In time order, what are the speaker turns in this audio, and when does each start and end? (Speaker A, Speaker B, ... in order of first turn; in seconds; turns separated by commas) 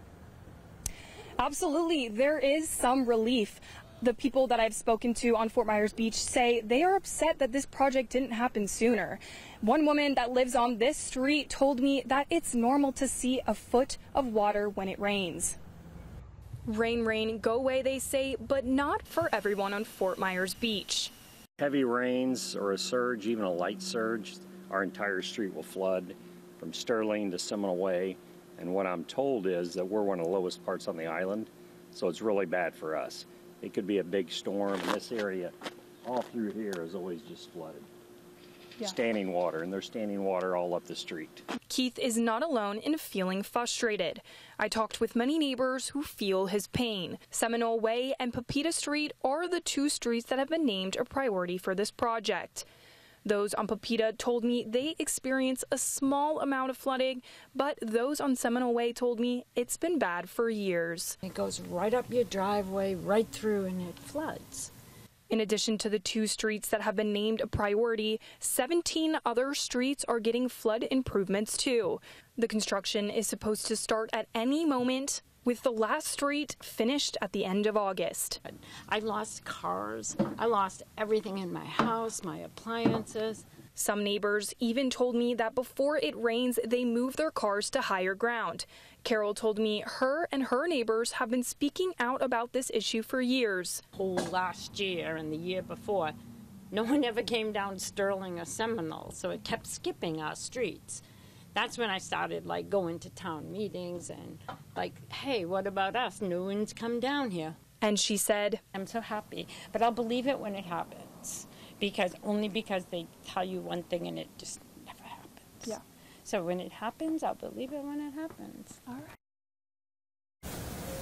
Speaker A: 1.4-15.6, Speaker A: 16.7-21.1, Speaker B: 21.6-37.9, Speaker B: 38.8-41.4, Speaker A: 41.7-52.6, Speaker A: 53.2-61.1, Speaker C: 61.2-64.7, Speaker A: 65.3-78.4, Speaker C: 78.5-83.4, Speaker A: 83.8-93.8, Speaker C: 94.0-96.1, Speaker C: 96.7-101.0, Speaker C: 101.5-107.6, Speaker A: 107.8-108.6, Speaker C: 108.7-118.8